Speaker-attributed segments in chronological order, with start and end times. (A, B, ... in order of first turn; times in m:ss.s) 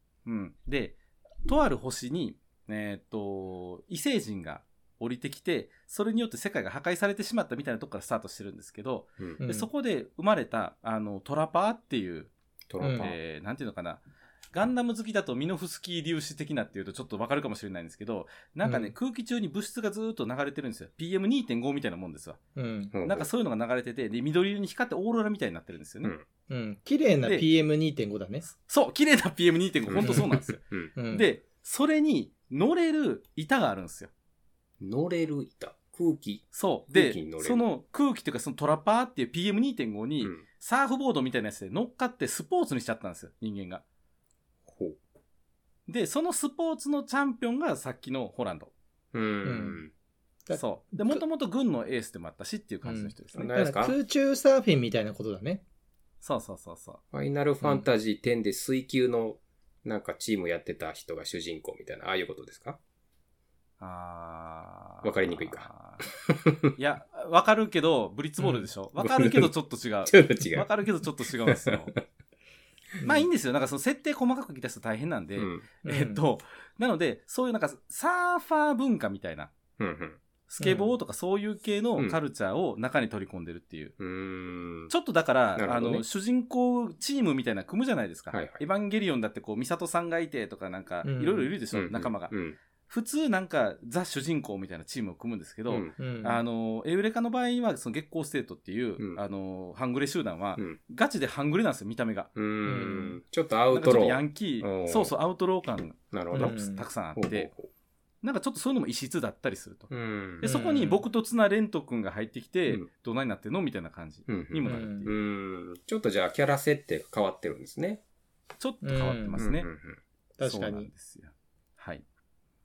0:00.2-0:12.3 A
0:09.4-0:09.7 B
0:12.7-0:13.2 C
0:12.8-0:13.1 B
0:12.9-0:14.0 A
0:14.5-0:22.4 A
0:18.6-0:18.9 B
0:22.5-0:22.9 B
0:22.9-0:23.3 C
0:23.0-0:26.1 A
0:26.5-0:28.5 B
0:28.5-0:34.1 A
0:29.8-0:30.9 C
0:30.0-0:30.4 B
0:31.0-0:31.3 B
0:34.8-0:37.6 C
0:36.5-0:43.8 A
0:44.6-0:45.0 C
0:45.9-0:48.7 A
0:49.1-0:49.9 C
0:49.4-0:49.8 B
0:50.5-0:51.2 B
0:50.5-0:53.5 A
0:52.8-0:55.6 B
0:53.3-0:54.0 C
0:56.2-0:57.0 A
0:57.1-1:02.8 C
1:03.8-1:06.1 A
1:05.0-1:06.7 C
1:06.7-1:12.0 A
1:08.4-1:08.7 B
1:09.0-1:09.5 C
1:10.0-1:11.9 C
1:13.0-1:13.3 B
1:13.0-1:19.5 A
1:15.4-1:15.7 C
1:15.8-1:16.2 B
1:19.8-1:20.2 C
1:20.5-1:23.9 A
1:20.6-1:20.9 B
1:24.0-1:24.9 C
1:24.9-1:32.3 A
1:25.6-1:26.0 C
1:28.3-1:28.6 C
1:31.0-1:31.5 B
1:31.7-1:32.6 C
1:32.9-1:42.3 A
1:35.7-1:35.9 C
1:36.0-1:36.4 B
1:42.4-1:45.1 C
1:42.6-1:43.2 B
1:43.7-1:47.5 A
1:46.1-1:46.6 C
1:46.3-1:46.8 B
1:47.1-1:47.7 C
1:48.2-1:55.1 A
1:49.9-1:50.5 C
1:50.4-1:51.0 B
1:54.3-1:58.0 C
1:54.6-1:55.1 B
1:58.6-1:59.7 A
1:58.8-1:59.4 B
1:59.4-2:00.0 C
2:00.4-2:00.9 B
2:00.4-2:02.0 A